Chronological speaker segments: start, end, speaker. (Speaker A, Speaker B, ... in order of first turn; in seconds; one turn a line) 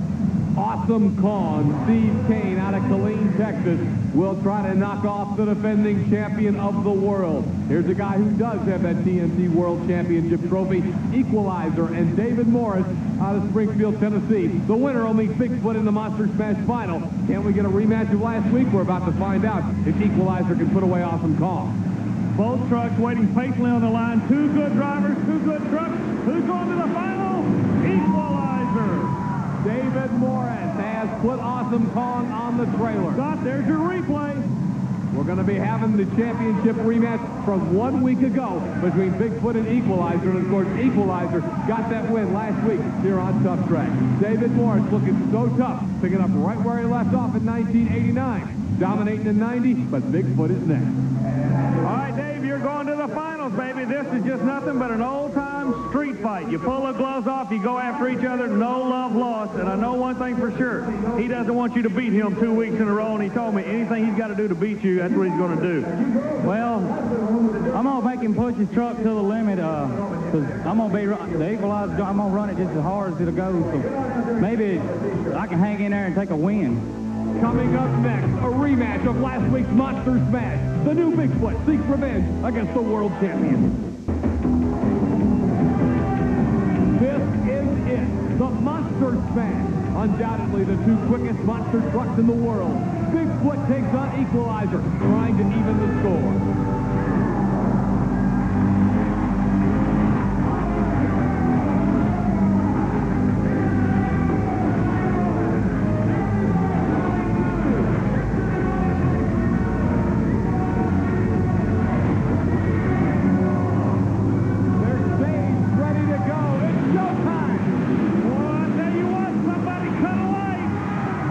Speaker A: 0.6-21.8
Speaker B: 22.3-29.2
Speaker A: 29.6-33.2
Speaker B: 33.1-34.5
Speaker A: 35.1-51.0
Speaker B: 51.8-65.9
Speaker C: 66.4-67.0
Speaker C: 67.7-76.8
Speaker A: 77.4-83.8
Speaker A: 87.0-96.5
Speaker A: 114.8-117.8
Speaker B: 118.2-120.8